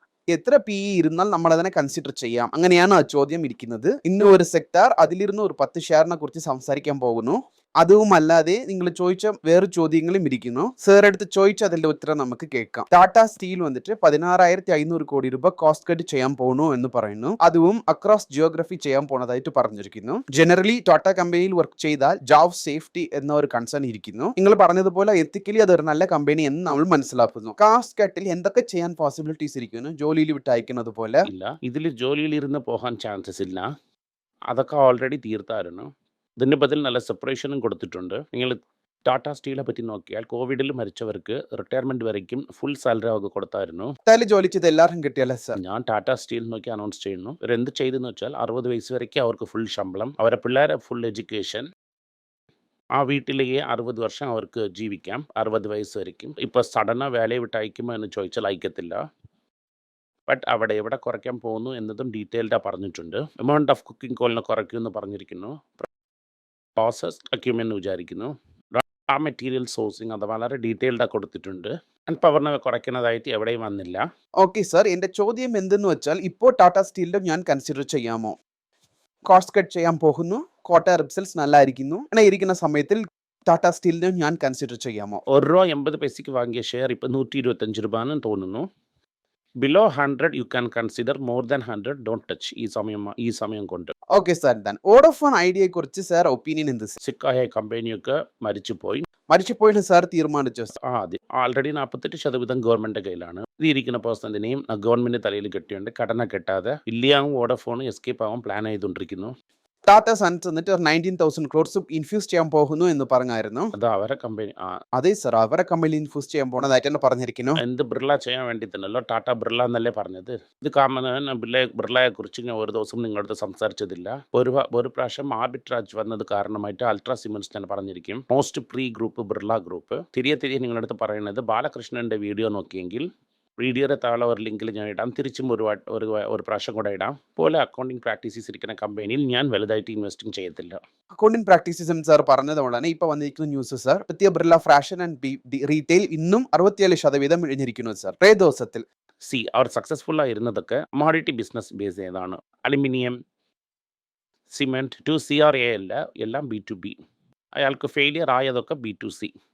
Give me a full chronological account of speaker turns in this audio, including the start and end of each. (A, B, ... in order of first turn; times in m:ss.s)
0:00.3-0:31.3 A
0:31.3-0:33.7 B
0:34.5-0:35.9 B
0:36.4-0:43.9 B
0:44.1-0:45.6 A
0:45.6-0:51.6 B
0:53.0-0:59.0 B
1:00.3-1:05.9 B
1:06.8-1:14.0 B
1:14.4-1:18.3 A
1:19.3-1:25.2 A
1:25.3-1:28.6 B
1:29.6-1:33.9 B
1:34.2-1:36.9 A
1:37.0-1:39.1 B
1:39.3-1:40.7 A
1:40.9-1:49.3 B
1:49.9-1:53.7 A
1:53.8-1:54.7 B
1:55.0-1:57.6 A
1:57.6-2:13.1 B
2:13.6-2:20.8 B
2:21.2-2:28.8 A
2:29.3-2:33.1 B
2:34.5-2:37.0 B
2:37.6-2:39.3 B